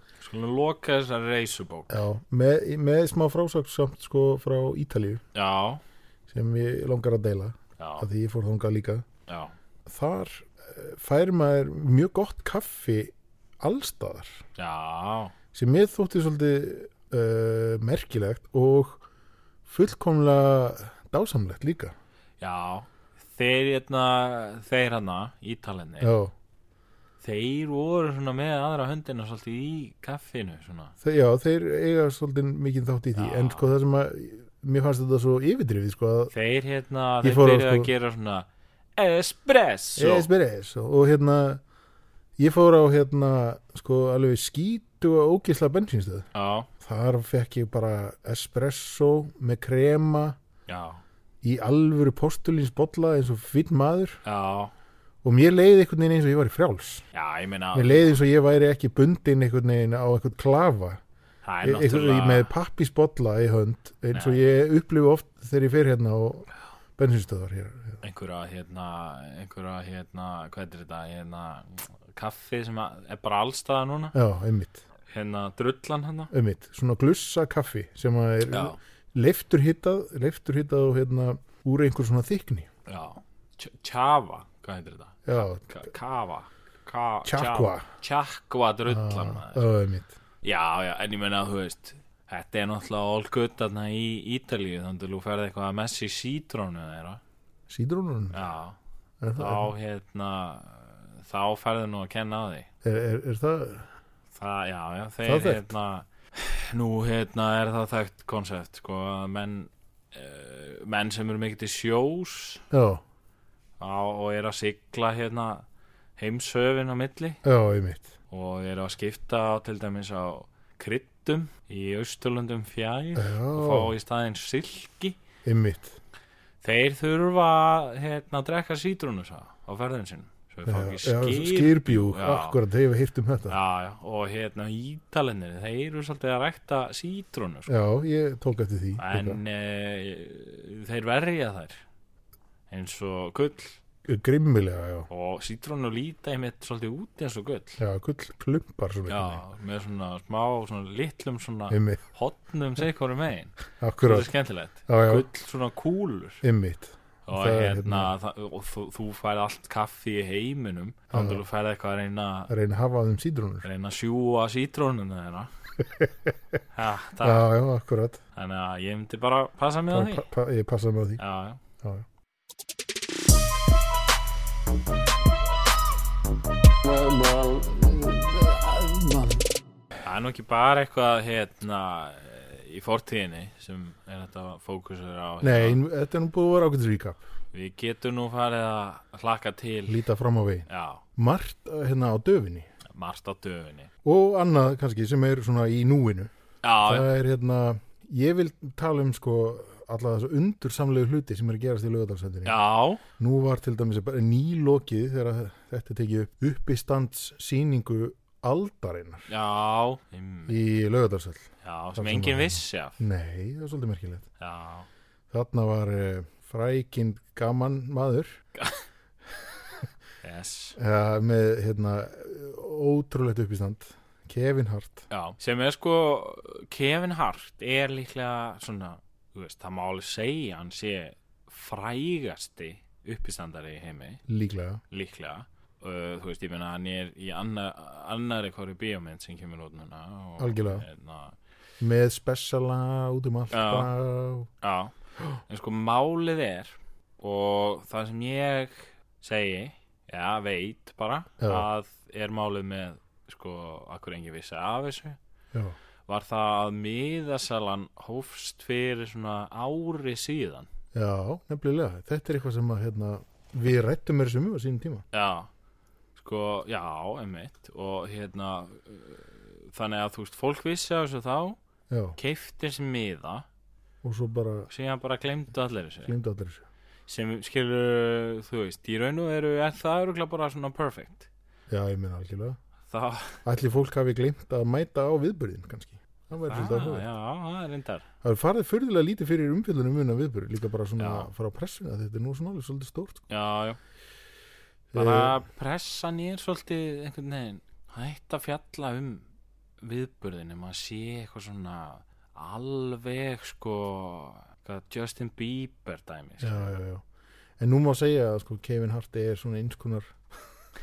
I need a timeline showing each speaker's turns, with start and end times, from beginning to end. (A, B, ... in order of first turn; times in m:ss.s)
0:00.2-0:02.0 A
0:01.9-0:05.2 B
0:05.3-0:05.8 A
0:06.3-0:09.1 B
0:07.8-0:08.1 A
0:09.3-0:09.5 A
0:09.9-0:14.4 B
0:14.6-0:15.4 A
0:15.5-0:19.0 B
0:19.7-0:22.0 B
0:22.4-0:26.1 A
0:26.0-0:26.3 B
0:27.2-0:30.9 A
0:31.0-0:36.3 B
0:33.2-0:33.6 A
0:36.3-0:40.3 A
0:37.2-0:37.9 B
0:40.0-0:41.6 B
0:42.4-0:46.3 B
0:46.3-0:46.7 A
0:46.8-0:50.4 B
0:50.7-0:51.0 A
0:51.4-0:54.2 B
0:54.2-0:54.7 A
0:55.2-0:57.0 B
0:57.1-0:58.1 A
0:57.7-1:01.0 B
1:01.4-1:02.5 A
1:01.6-1:08.0 B
1:04.1-1:04.4 A
1:08.0-1:14.2 A
1:14.1-1:14.8 B
1:15.1-1:16.3 A
1:16.3-1:22.7 B
1:18.5-1:18.8 A
1:22.9-1:29.7 A
1:25.3-1:25.7 B
1:27.3-1:27.8 B
1:28.9-1:30.1 B
1:30.4-1:37.2 A
1:37.7-1:38.4 B
1:38.3-1:38.8 A
1:39.2-1:39.7 B
1:39.4-1:42.7 A
1:42.8-1:43.9 B
1:44.4-1:52.6 A
1:45.2-1:45.7 B
1:52.7-1:53.0 B
1:53.8-1:55.6 A
1:56.2-1:57.4 A
1:57.4-1:58.1 B
1:58.3-2:05.2 A
2:03.2-2:03.9 B
2:05.4-2:06.0 B
2:06.6-2:12.6 A
2:10.7-2:13.6 B
2:13.5-2:17.7 A
2:17.7-2:19.4 B
2:19.0-2:21.8 A
2:22.7-2:23.8 A
2:24.1-2:25.1 B
2:25.1-2:27.8 A
2:27.8-2:29.4 B
2:29.1-2:36.4 A
2:31.7-2:32.0 B
2:33.8-2:34.3 B
2:34.9-2:35.3 B
2:36.4-2:38.1 B
2:37.3-2:42.5 A
2:41.1-2:41.4 B
2:42.5-2:43.6 B
2:43.6-2:45.5 A
2:46.7-2:47.5 A
2:47.2-2:48.2 B
2:48.4-2:50.2 A
2:49.9-2:51.2 B
2:51.2-2:51.6 A
2:56.8-2:59.5 C
3:00.0-3:05.8 A
3:05.4-3:07.2 B
3:07.5-3:10.0 A
3:09.9-3:12.7 B
3:10.7-3:11.0 A
3:12.9-3:13.9 A
3:14.0-3:16.3 B
3:16.6-3:17.1 A
3:16.8-3:22.6 B
3:22.4-3:23.0 A
3:23.2-3:29.3 B
3:29.3-3:30.6 A
3:30.5-3:34.3 B
3:31.6-3:33.0 A
3:34.4-3:34.9 A
3:35.3-3:38.4 B
3:40.2-3:40.8 A
3:40.8-3:45.1 B
3:45.1-3:54.2 A
3:54.3-3:54.8 B
3:54.9-4:01.4 A
4:00.4-4:00.8 B
4:01.8-4:04.5 B
4:03.5-4:03.9 A
4:04.6-4:04.9 A
4:05.5-4:15.2 A
4:11.4-4:11.7 B
4:16.1-4:20.7 A
4:20.9-4:25.0 B
4:25.1-4:25.5 A
4:26.2-4:31.6 A
4:31.9-4:32.2 B
4:32.2-4:33.5 A
4:34.0-4:34.7 B
4:34.7-4:36.1 A
4:36.0-4:36.6 B
4:37.1-4:41.3 A
4:41.7-4:42.6 B
4:42.9-4:43.4 A
4:43.4-4:47.1 B
4:46.4-4:48.1 A
4:48.2-4:53.2 B
4:51.0-4:51.3 A
4:53.3-4:53.8 A
4:54.9-4:55.4 B
4:54.9-4:59.2 A
4:59.8-5:06.7 A
5:06.4-5:07.0 B
5:07.6-5:10.3 B